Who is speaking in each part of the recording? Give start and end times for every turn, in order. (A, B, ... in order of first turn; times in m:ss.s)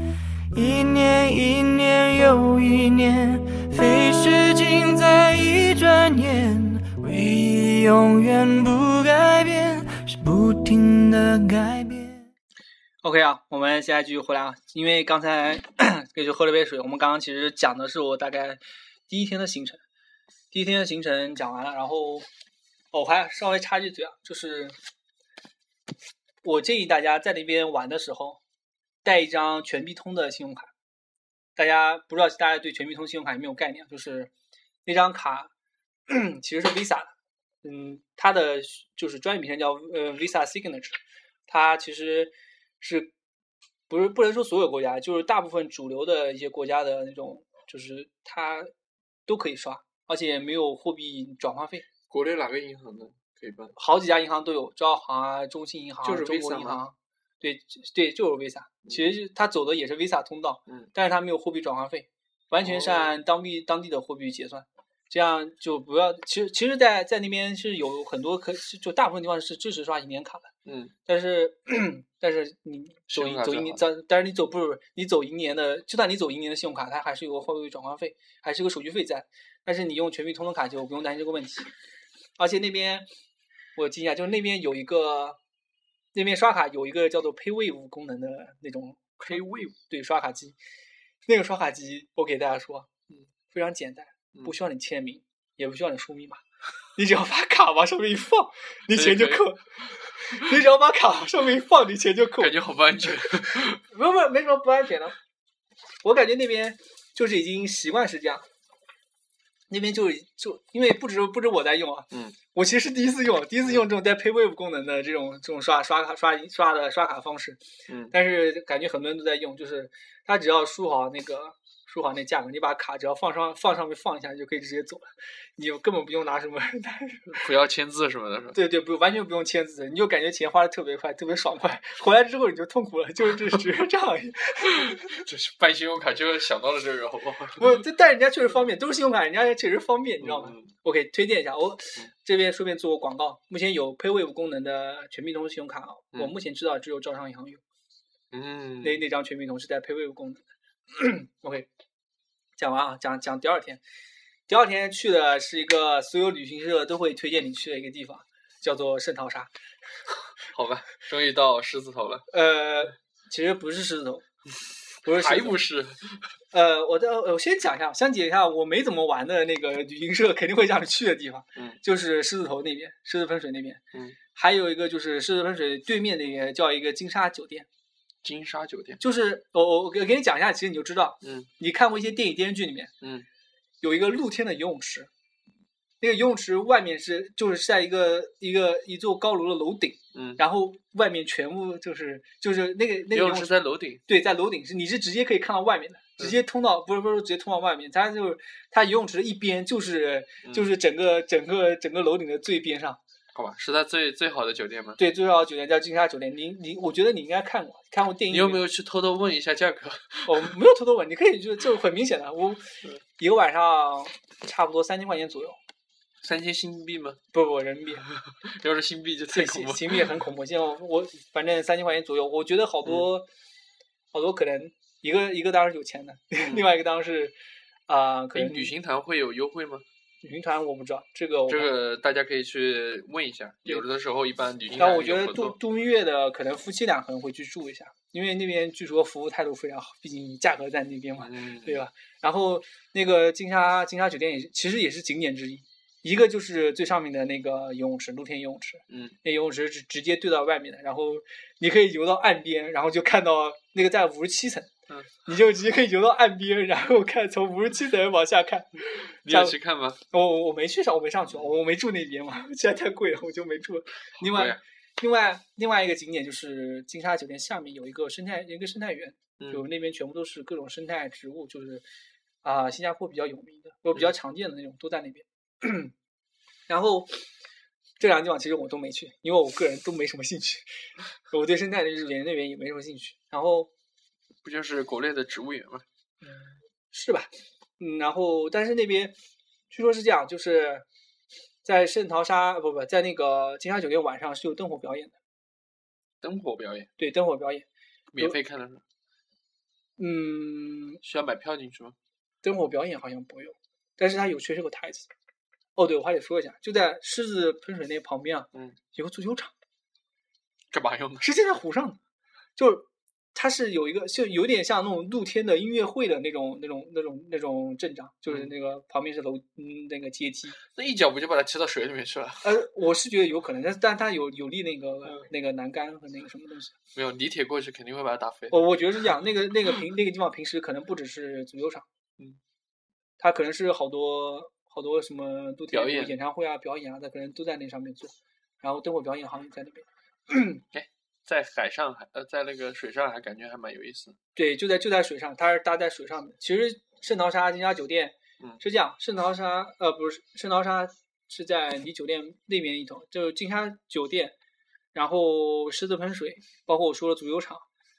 0:00.5-0:12.3 A
0:13.0-0:19.8 B
0:20.5-0:22.3 B
0:22.9-0:24.8 B
0:26.4-0:28.4 B
0:29.0-0:30.7 B
0:31.6-0:34.3 B
0:34.9-0:35.5 B
0:36.1-0:37.1 B
0:37.6-0:43.1 B
0:43.9-0:48.7 B
0:49.3-0:51.9 B
0:52.1-0:53.7 C
0:53.8-1:10.5 B
0:56.0-0:56.8 C
1:02.6-1:03.2 C
1:10.7-1:10.9 C
1:11.1-1:21.7 B
1:13.1-1:13.8 C
1:22.4-1:23.1 B
1:23.8-1:25.4 B
1:26.1-1:29.4 B
1:29.2-1:29.8 C
1:29.9-1:30.6 B
1:31.3-1:32.9 B
1:33.5-1:36.4 B
1:37.0-1:42.6 B
1:38.9-1:40.4 C
1:42.4-1:43.8 C
1:43.4-1:45.2 B
1:46.0-1:48.5 B
1:49.7-1:57.6 B
1:52.1-1:52.4 C
1:57.9-1:58.1 C
1:58.1-2:07.4 B
2:07.3-2:08.6 C
2:08.5-2:15.2 B
2:14.7-2:17.8 C
2:17.6-2:27.6 B
2:20.2-2:20.7 C
2:28.3-2:29.0 C
2:28.8-2:31.7 B
2:32.6-2:33.8 B
2:34.5-2:39.5 B
2:40.5-2:42.3 C
2:42.3-2:44.2 B
2:45.0-2:45.6 B
2:45.1-2:46.3 C
2:46.5-2:53.8 B
2:54.4-2:57.7 B
2:58.2-2:59.0 C
2:59.0-3:02.9 B
3:01.2-3:01.5 C
3:03.0-3:03.3 C
3:03.8-3:05.1 B
3:06.0-3:23.0 B
3:10.1-3:10.4 C
3:13.1-3:14.0 C
3:20.4-3:20.7 C
3:23.3-3:25.0 C
3:25.0-3:28.6 B
3:28.3-3:30.6 C
3:30.3-3:35.6 B
3:36.2-3:37.2 C
3:37.3-3:38.0 B
3:38.4-3:40.2 C
3:39.3-3:43.3 B
3:44.1-3:47.4 B
3:46.4-3:46.7 C
3:47.9-3:48.7 B
3:48.4-3:49.8 C
3:50.2-3:51.7 B
3:51.5-3:55.6 C
3:54.7-4:14.7 B
4:01.2-4:01.8 C
4:08.9-4:09.2 C
4:15.2-4:19.6 B
4:19.2-4:20.0 C
4:20.1-4:31.8 B
4:24.2-4:24.6 C
4:29.4-4:29.6 C
4:32.4-4:35.9 B
4:36.7-4:37.2 B
4:38.0-4:40.7 B
4:41.3-4:43.7 B
4:44.4-4:45.8 C
4:46.2-4:49.2 B
4:49.7-4:50.8 B
4:51.6-4:55.2 B
4:56.2-4:56.9 C
4:57.0-4:57.7 B
4:58.1-4:58.8 C
5:00.0-5:01.0 B
5:01.0-5:02.0 C
5:02.4-5:05.1 B
5:05.8-5:09.5 B
5:10.7-5:11.3 C
5:11.2-5:12.0 B
5:12.6-5:20.6 B
5:18.3-5:18.5 C
5:20.7-5:22.5 C
5:22.4-5:26.8 B
5:26.9-5:28.6 C
5:28.5-5:31.9 B
5:33.2-5:40.6 B
5:35.7-5:36.2 C
5:40.7-5:44.2 C
5:44.4-5:54.4 B
5:54.9-5:57.7 B